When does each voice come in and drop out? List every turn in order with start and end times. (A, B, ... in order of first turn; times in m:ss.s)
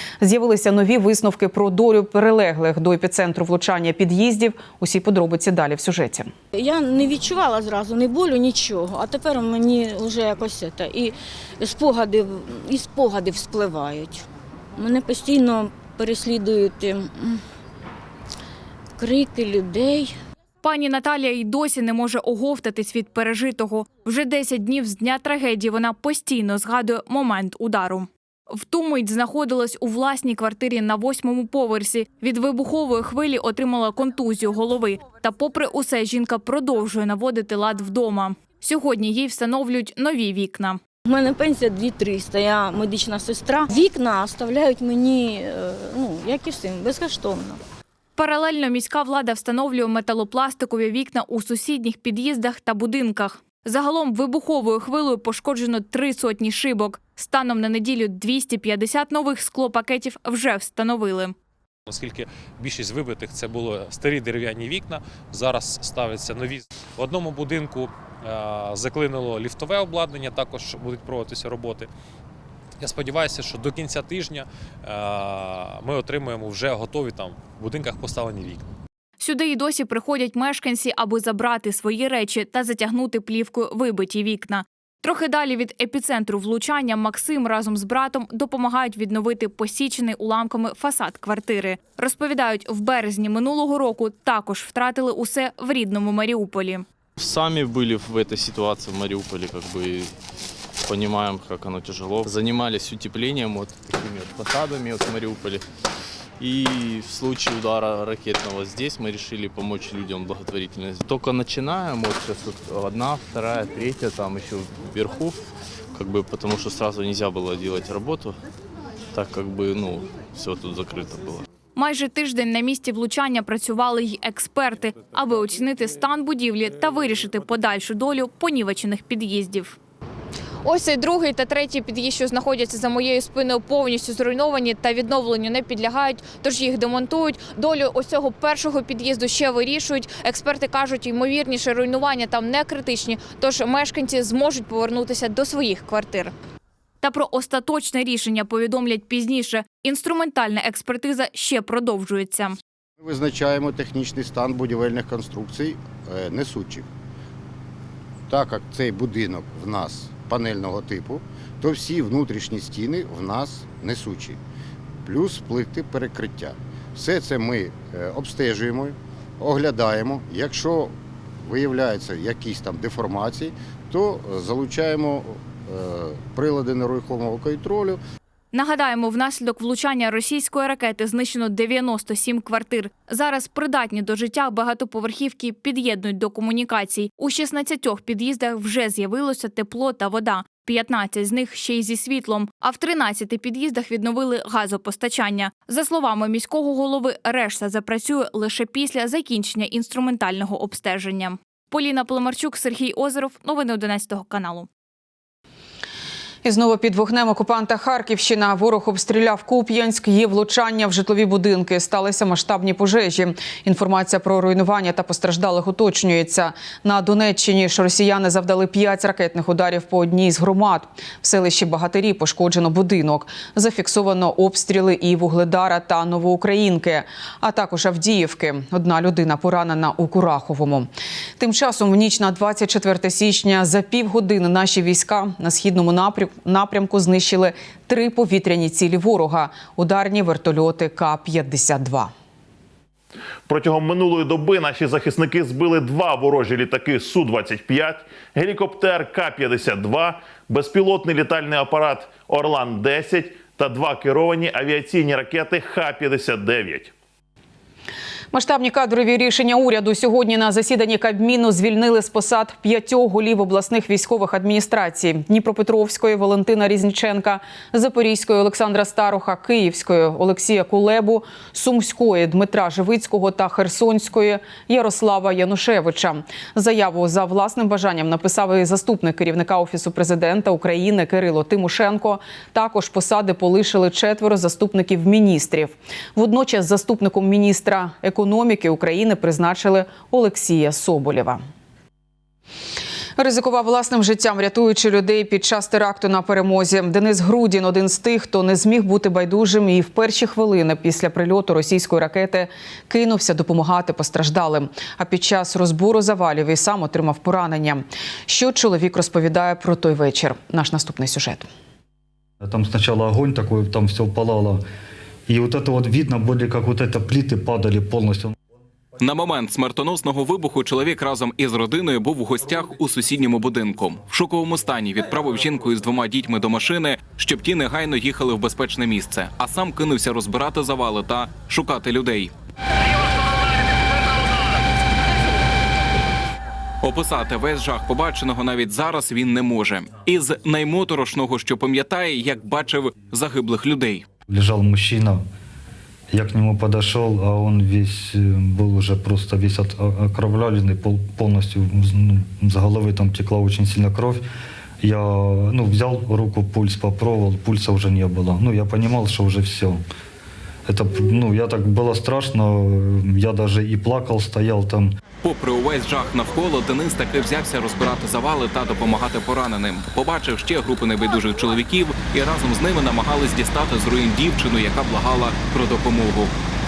0:00.2-0:06.3 A
0:06.5-0:14.2 B
0:14.8-0:17.4 B
0:19.0-0:20.1 B
0:20.6-0:40.8 C
0:41.1-0:47.6 B
0:48.2-1:01.3 C
1:01.9-1:11.9 D
1:12.8-1:18.7 D
1:19.2-1:36.8 C
1:37.2-1:40.1 E
1:40.8-1:45.6 E
1:46.4-1:55.3 E
1:55.9-1:58.4 E
1:59.1-2:01.4 E
2:01.7-2:09.8 C
2:10.6-2:26.3 C
2:27.0-2:32.6 C
2:33.0-2:36.9 F
2:38.3-2:44.4 F
2:45.0-2:58.0 F
2:58.5-3:24.7 C
3:26.4-4:02.1 A
4:03.5-4:16.9 G
4:18.3-4:51.4 A
4:53.2-5:11.5 A
5:12.4-5:14.6 H
5:15.3-5:18.3 H
5:19.0-5:32.3 I
5:36.8-5:44.0 I
5:44.3-5:45.2 H
5:46.1-5:54.2 H
5:54.8-5:59.8 H
6:00.7-6:04.9 H
6:05.2-6:16.3 I